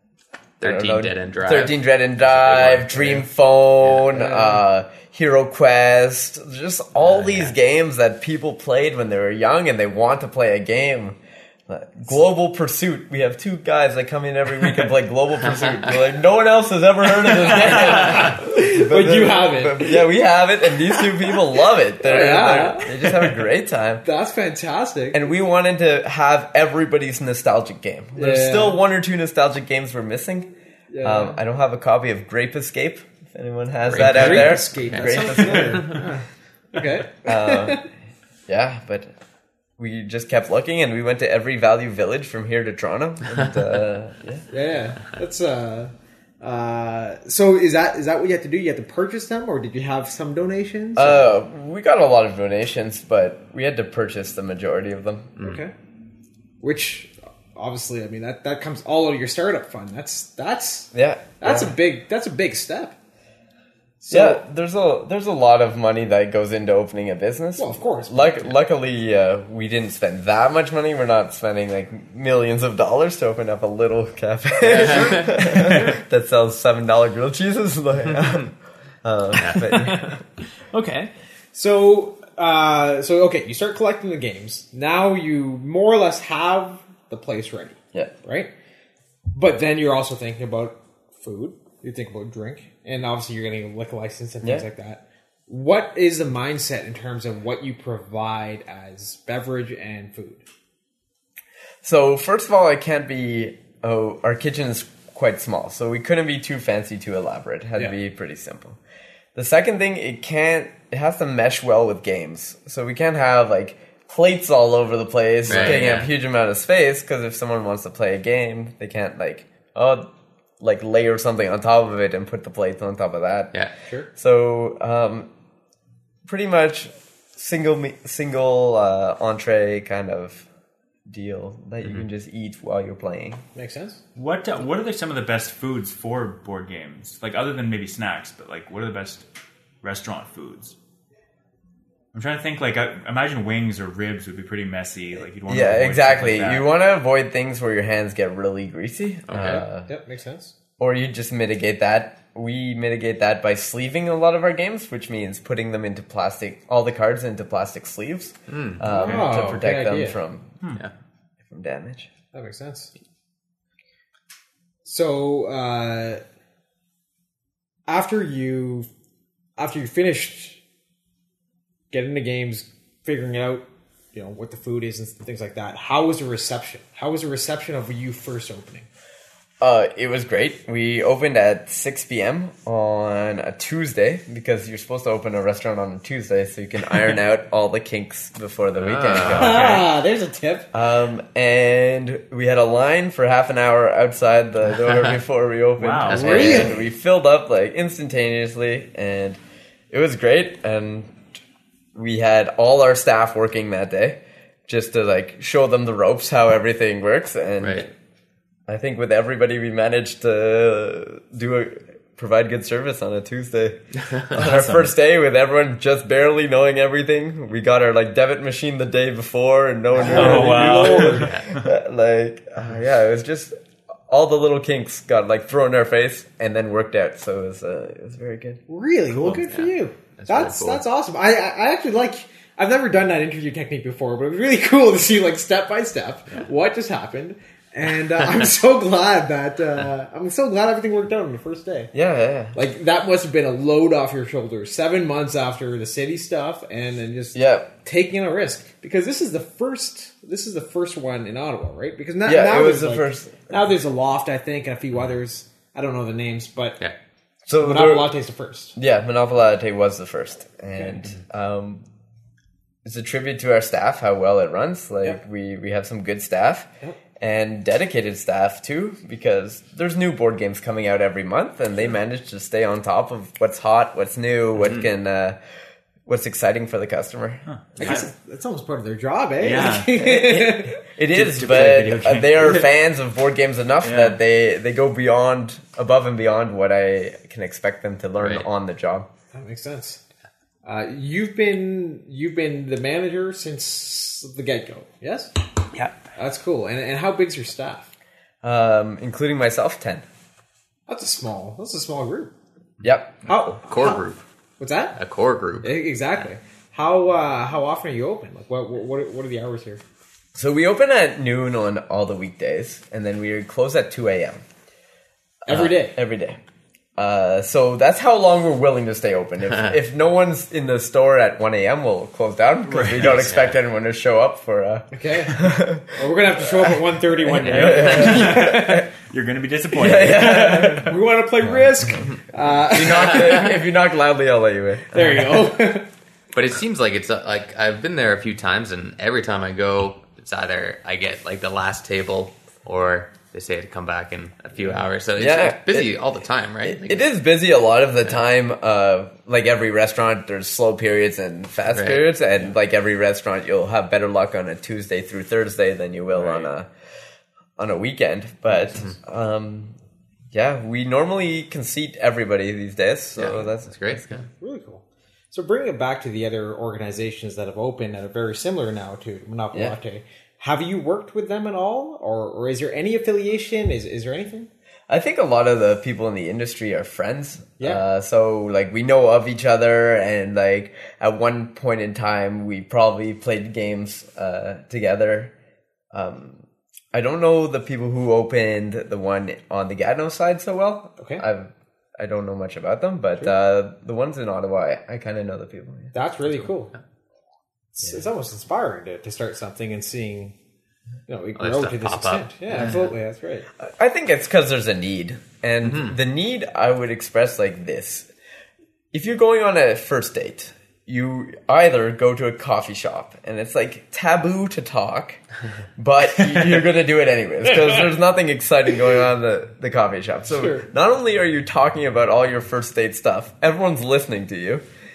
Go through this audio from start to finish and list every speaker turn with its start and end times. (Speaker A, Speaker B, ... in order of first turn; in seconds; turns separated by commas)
Speaker A: 0.6-3.2, Speaker B: 0.6-24.0, Speaker C: 4.1-4.6, Speaker A: 7.0-7.5, Speaker C: 17.6-20.1, Speaker C: 20.9-21.3, Speaker C: 22.0-23.3, Speaker C: 24.0-25.2, Speaker B: 25.1-30.5, Speaker C: 28.1-28.8, Speaker C: 30.9-31.4, Speaker B: 31.0-36.0, Speaker A: 33.9-36.0, Speaker C: 34.0-37.8, Speaker B: 37.2-37.9, Speaker B: 38.5-39.1, Speaker B: 39.8-44.4, Speaker C: 44.5-51.3, Speaker B: 51.0-55.3, Speaker C: 55.4-55.7, Speaker C: 56.6-63.0, Speaker B: 60.9-61.7, Speaker C: 64.0-64.4, Speaker B: 64.1-80.2, Speaker C: 67.6-68.5, Speaker A: 74.7-75.3, Speaker C: 74.8-75.8, Speaker A: 79.3-79.8, Speaker C: 79.7-88.5, Speaker C: 89.3-100.4, Speaker B: 101.8-108.8, Speaker B: 109.3-120.1, Speaker A: 115.5-116.1, Speaker B: 120.6-123.5, Speaker B: 124.2-125.3, Speaker B: 126.2-130.4, Speaker B: 131.1-133.4, Speaker C: 133.5-134.0, Speaker D: 134.1-139.2, Speaker D: 139.8-140.7, Speaker D: 142.1-146.7, Speaker B: 145.4-149.9, Speaker A: 149.3-149.6, Speaker C: 149.8-150.5, Speaker B: 150.8-160.6, Speaker A: 158.5-158.8, Speaker D: 158.9-159.3, Speaker C: 158.9-160.2, Speaker B: 161.4-162.1, Speaker C: 162.3-162.9, Speaker C: 164.8-166.2, Speaker C: 167.9-168.9, Speaker C: 169.6-170.6, Speaker C: 171.9-178.9, Speaker B: 179.6-189.8, Speaker A: 188.8-189.7, Speaker C: 189.2-190.7, Speaker D: 189.5-189.8, Speaker B: 190.7-199.4, Speaker D: 195.8-196.5, Speaker A: 196.0-196.8, Speaker C: 196.1-196.8, Speaker B: 199.9-201.2, Speaker B: 201.9-207.9, Speaker A: 207.6-207.9, Speaker B: 208.7-223.5, Speaker D: 214.3-214.9, Speaker C: 219.9-221.3, Speaker D: 220.0-221.7, Speaker A: 221.1-221.5, Speaker B: 224.1-228.6, Speaker C: 228.7-241.9, Speaker A: 229.2-230.8, Speaker B: 241.9-242.6, Speaker C: 242.5-256.8, Speaker B: 247.3-247.7, Speaker B: 252.2-253.5, Speaker B: 257.5-258.1, Speaker C: 257.6-258.7, Speaker B: 258.8-261.8, Speaker C: 260.7-261.0, Speaker B: 262.8-266.7, Speaker B: 267.2-275.4, Speaker A: 274.6-274.9, Speaker B: 276.1-278.0, Speaker D: 277.4-278.1, Speaker C: 277.8-280.8, Speaker D: 279.4-280.0, Speaker B: 279.9-289.1, Speaker D: 281.1-282.7, Speaker D: 283.8-284.2, Speaker A: 288.2-288.4, Speaker C: 289.3-290.0, Speaker C: 290.6-295.3, Speaker C: 296.1-297.9, Speaker B: 298.4-300.1, Speaker C: 300.9-302.3, Speaker B: 302.8-303.1, Speaker C: 303.2-304.0, Speaker A: 303.7-304.2, Speaker C: 304.6-305.0, Speaker A: 304.9-305.7, Speaker C: 305.6-309.8, Speaker B: 310.3-314.4, Speaker C: 315.5-315.9, Speaker B: 315.5-316.4, Speaker B: 317.0-328.9, Speaker D: 322.7-323.2, Speaker A: 323.2-323.6, Speaker C: 324.9-328.9, Speaker D: 327.4-330.9, Speaker A: 327.6-328.1, Speaker B: 329.7-330.9, Speaker C: 329.9-333.5, Speaker B: 332.7-335.5, Speaker A: 332.8-333.6, Speaker C: 334.9-335.9, Speaker A: 336.3-347.1, Speaker B: 345.1-345.9, Speaker B: 346.6-356.7, Speaker A: 351.7-352.2, Speaker B: 357.6-359.8, Speaker B: 360.3-364.1, Speaker A: 363.1-364.3, Speaker C: 364.4-374.5, Speaker B: 374.9-385.3, Speaker C: 377.6-377.8, Speaker B: 385.9-395.9, Speaker C: 391.0-391.2, Speaker C: 395.9-396.7, Speaker C: 397.8-400.3, Speaker C: 401.1-403.5, Speaker A: 401.4-402.8, Speaker B: 403.6-408.1, Speaker A: 405.6-405.9, Speaker B: 408.9-415.2, Speaker B: 415.8-424.6, Speaker C: 420.3-420.7